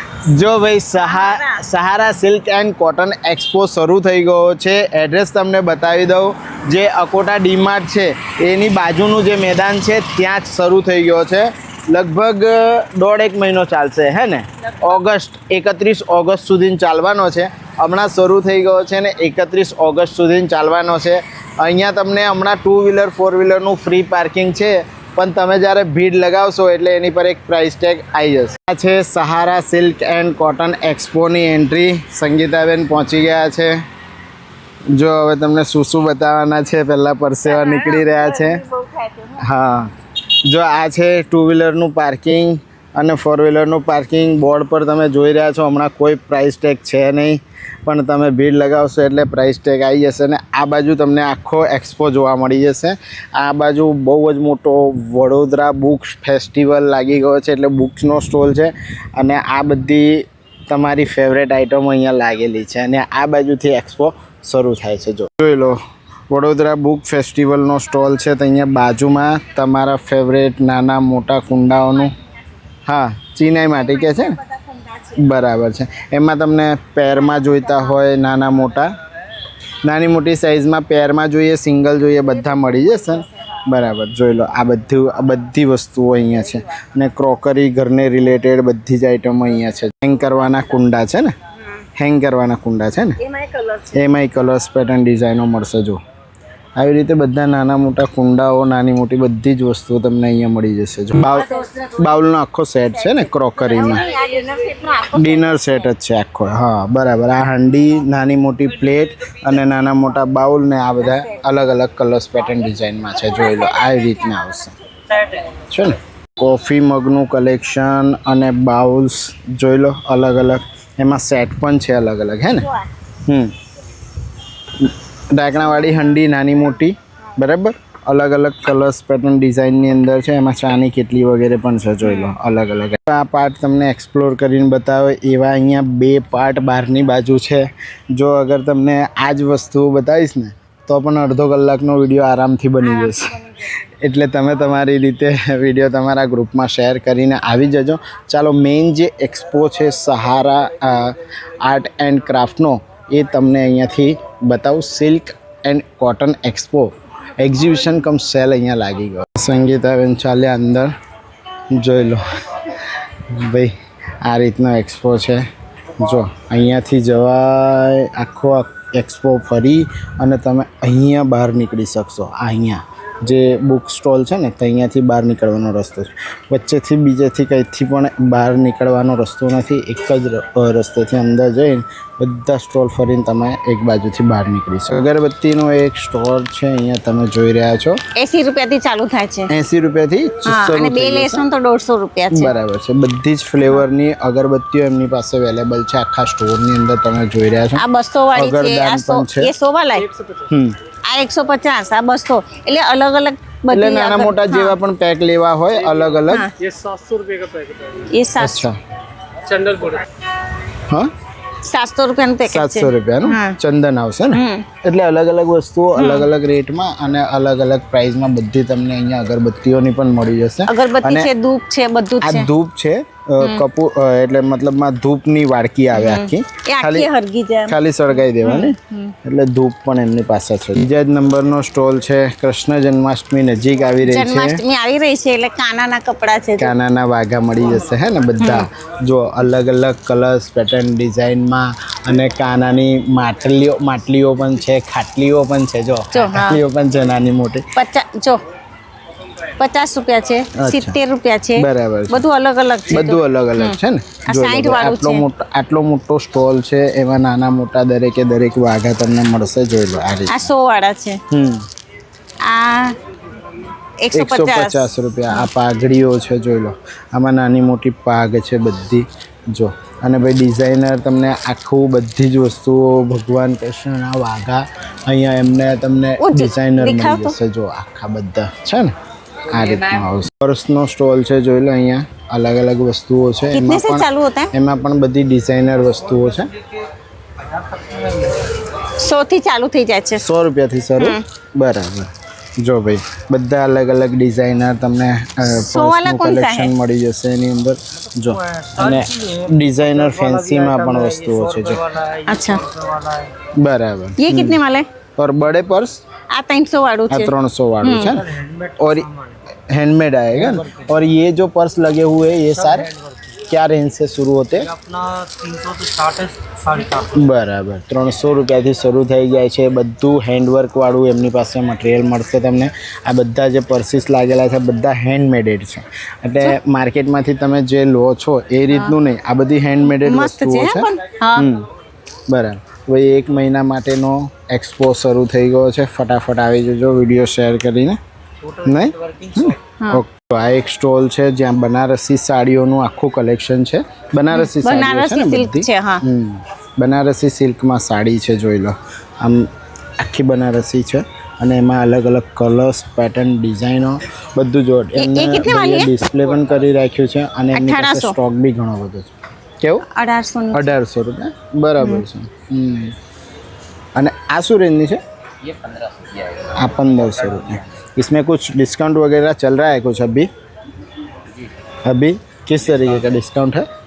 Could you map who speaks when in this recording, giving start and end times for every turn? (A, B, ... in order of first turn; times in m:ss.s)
0:00.4-0:33.8 A
0:00.9-0:01.6 B
0:34.9-0:38.6 A
0:37.4-0:39.4 B
0:39.4-0:39.9 A
0:40.5-1:05.8 A
1:06.3-1:12.2 A
1:12.9-1:14.4 A
1:14.6-1:15.0 B
1:15.1-1:18.9 A
1:19.8-1:31.3 A
1:22.5-1:23.2 B
1:32.0-1:33.2 A
1:33.3-1:33.9 B
1:33.9-1:36.0 A
1:36.8-1:44.1 A
1:41.3-1:41.9 B
1:43.1-1:45.9 B
1:45.0-1:54.8 A
1:53.6-1:54.0 B
1:55.7-2:02.7 A
2:03.3-2:03.5 A
2:04.8-2:40.9 A
2:12.0-2:12.4 B
2:23.0-2:23.5 B
2:41.7-2:45.5 A
2:46.0-3:08.0 A
3:08.2-3:09.5 B
3:09.5-3:11.4 A
3:10.5-3:12.5 B
3:12.3-3:17.8 A
3:17.8-3:20.1 B
3:18.4-3:19.5 A
3:20.1-3:20.5 C
3:20.5-3:20.8 A
3:21.1-3:24.8 B
3:23.7-3:26.5 A
3:25.8-3:28.1 C
3:26.3-3:26.5 B
3:28.1-3:28.7 B
3:28.4-3:28.8 A
3:29.4-3:30.0 C
3:31.6-3:33.6 B
3:32.4-3:41.3 A
3:34.3-3:34.7 B
3:36.0-3:36.3 B
3:40.7-3:42.5 B
3:42.2-3:47.1 A
3:45.9-3:49.1 B
3:47.7-3:54.6 A
3:54.0-3:56.7 B
3:56.6-4:07.6 A
3:58.4-3:58.7 B
4:06.1-4:06.6 B
4:07.8-4:08.4 B
4:09.6-4:15.2 B
4:10.6-4:11.0 A
4:11.6-4:12.2 A
4:12.9-4:20.5 A
4:20.3-4:21.2 B
4:21.3-4:21.6 A
4:22.4-4:23.0 B
4:24.0-4:25.5 B
4:24.1-4:38.9 A
4:36.2-4:37.4 B
4:39.4-4:46.5 A
4:43.5-4:44.5 B
4:47.6-4:48.4 C
4:48.8-4:50.2 B
4:50.2-4:52.1 A
4:51.0-4:51.2 B
4:52.6-5:01.9 A
4:55.4-4:56.7 B
4:58.2-5:03.3 C
5:02.2-5:02.6 B
5:03.6-5:04.6 A
5:04.2-5:04.9 B
5:05.2-5:06.0 A
5:06.3-5:08.2 B
5:07.1-5:09.1 A
5:08.2-5:09.4 C
5:09.7-5:12.9 A
5:10.4-5:11.0 C
5:12.6-5:13.2 C
5:13.5-5:14.7 A
5:14.7-5:17.1 C
5:17.1-5:31.7 A
5:28.7-5:29.0 B
5:29.9-5:31.5 B
5:32.3-5:38.0 A
5:38.4-5:39.5 C
5:38.6-5:49.5 A
5:44.4-5:46.0 B
5:50.0-5:59.8 A
5:55.0-5:56.0 B
5:57.6-5:58.2 B
5:59.9-6:00.8 B
6:00.5-6:03.0 A
6:04.0-6:05.0 A
6:05.5-6:06.3 C
6:06.3-6:10.3 A
6:11.8-6:13.7 A